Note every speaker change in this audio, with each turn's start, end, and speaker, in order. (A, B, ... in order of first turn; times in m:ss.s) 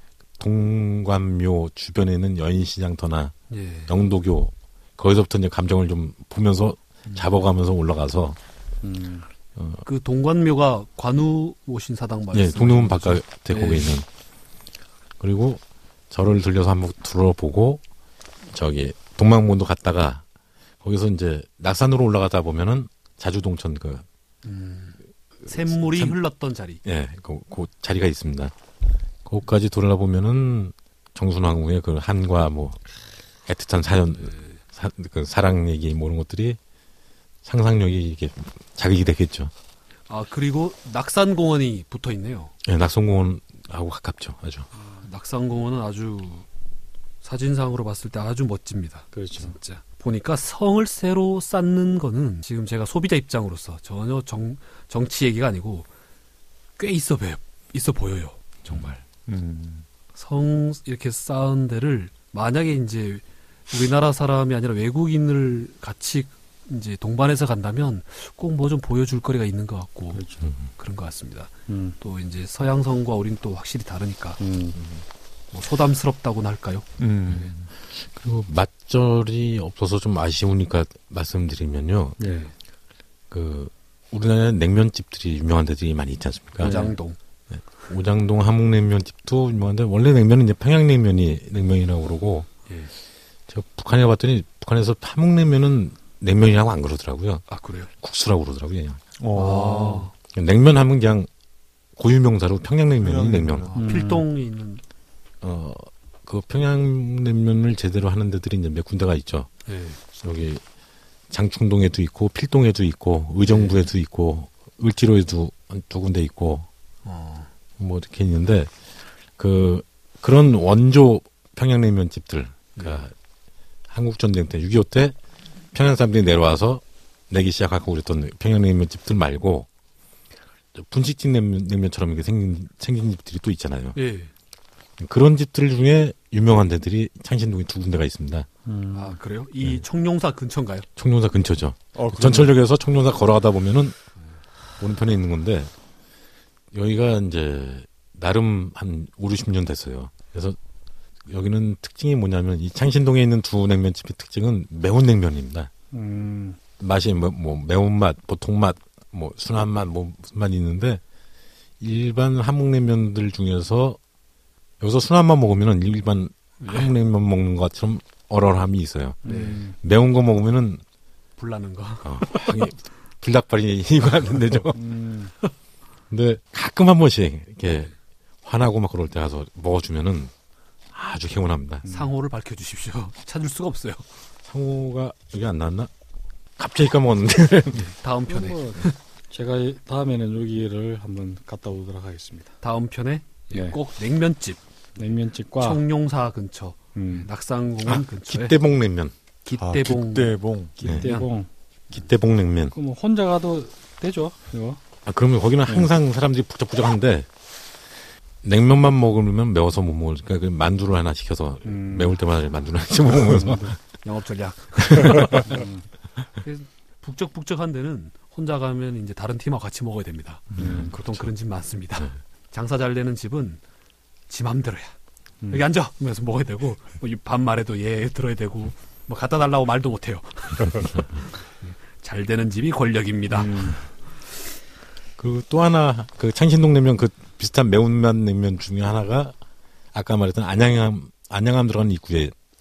0:00.4-0:03.4 A
0:03.5-0:03.9 B
0:03.9-0:08.4 A
0:08.8-0:09.3 C
0:09.6-0:09.8 A
0:09.8-0:13.9 B
0:12.3-0:14.1 A
0:15.2-0:17.8 A
0:18.5-0:20.2 A
0:20.8-0:24.0 A
0:24.4-0:26.8 B
0:25.4-0:26.2 A
0:26.8-0:28.5 A
0:29.2-0:32.9 A
0:33.5-0:36.6 A
0:34.2-0:34.5 B
0:37.4-0:39.5 A
0:40.1-0:42.5 B
0:42.6-0:44.7 A
0:45.0-0:46.5 B
0:47.2-0:55.9 B
0:49.1-0:49.6 C
0:56.8-0:59.0 B
0:59.3-0:59.9 D
1:00.1-1:10.2 B
1:10.1-1:10.4 C
1:10.8-1:14.4 B
1:11.7-1:12.0 C
1:14.4-1:14.8 C
1:14.8-1:15.0 A
1:15.5-1:16.9 B
1:17.0-1:17.6 D
1:17.9-1:22.2 A
1:22.2-1:22.5 C
1:23.3-1:26.9 A
1:26.6-1:27.2 B
1:26.6-1:26.9 C
1:27.5-1:32.5 A
1:33.5-1:37.5 A
1:37.5-1:37.9 B
1:38.0-1:39.0 A
1:39.2-1:40.1 D
1:39.3-1:40.1 B
1:40.3-1:41.3 A
1:42.0-1:43.7 A
1:43.0-1:43.9 D
1:43.7-1:44.8 B
1:43.8-1:44.2 C
1:45.4-1:49.5 A
1:49.7-1:50.0 B
1:50.1-1:50.6 A
1:51.3-1:56.7 A
1:53.5-1:53.8 B
1:57.0-1:57.5 B
1:57.8-1:58.7 A
1:59.4-2:03.1 A
2:02.8-2:03.0 B
2:03.9-2:05.2 A
2:05.7-2:09.7 A
2:10.8-2:14.0 A
2:14.0-2:14.3 B
2:15.0-2:18.5 A
2:18.7-2:19.2 C
2:18.9-2:20.9 B
2:21.0-2:24.0 A
2:22.0-2:22.6 D
2:24.8-2:25.7 A
2:26.7-2:30.6 A
2:31.3-2:35.7 A
2:35.9-2:36.6 C
2:36.8-2:41.0 A
2:41.8-2:44.0 A
2:44.8-2:50.8 A
2:46.6-2:46.9 B
2:49.2-2:49.8 C
2:49.2-2:49.7 B
2:51.4-2:52.3 B
2:52.0-2:54.8 A
2:54.8-2:55.3 C
2:56.1-2:57.9 A
2:58.4-3:00.3 A
3:00.9-3:01.8 A
3:01.8-3:02.1 C
3:01.9-3:04.1 B
3:04.5-3:05.9 A
3:06.6-3:07.9 A
3:07.9-3:09.0 B
3:08.3-3:12.6 C
3:12.6-3:14.6 B
3:13.5-3:13.8 C
3:15.0-3:15.8 C
3:15.6-3:18.6 B
3:17.0-3:17.3 C
3:17.8-3:19.1 A
3:19.4-3:21.3 B
3:19.6-3:20.8 D
3:20.8-3:21.5 C
3:21.9-3:22.8 A
3:22.7-3:24.8 C
3:25.1-3:27.3 A
3:28.4-3:33.7 A
3:31.6-3:32.3 C
3:33.0-3:33.8 C
3:34.0-3:35.7 B
3:34.8-3:35.5 A
3:35.4-3:35.8 C
3:36.4-3:43.6 B
3:40.5-3:41.3 A
3:40.6-3:40.9 C
3:44.3-3:45.0 B
3:45.5-3:53.8 B
3:53.3-3:53.8 C
3:55.2-3:59.4 A
3:59.9-4:02.3 A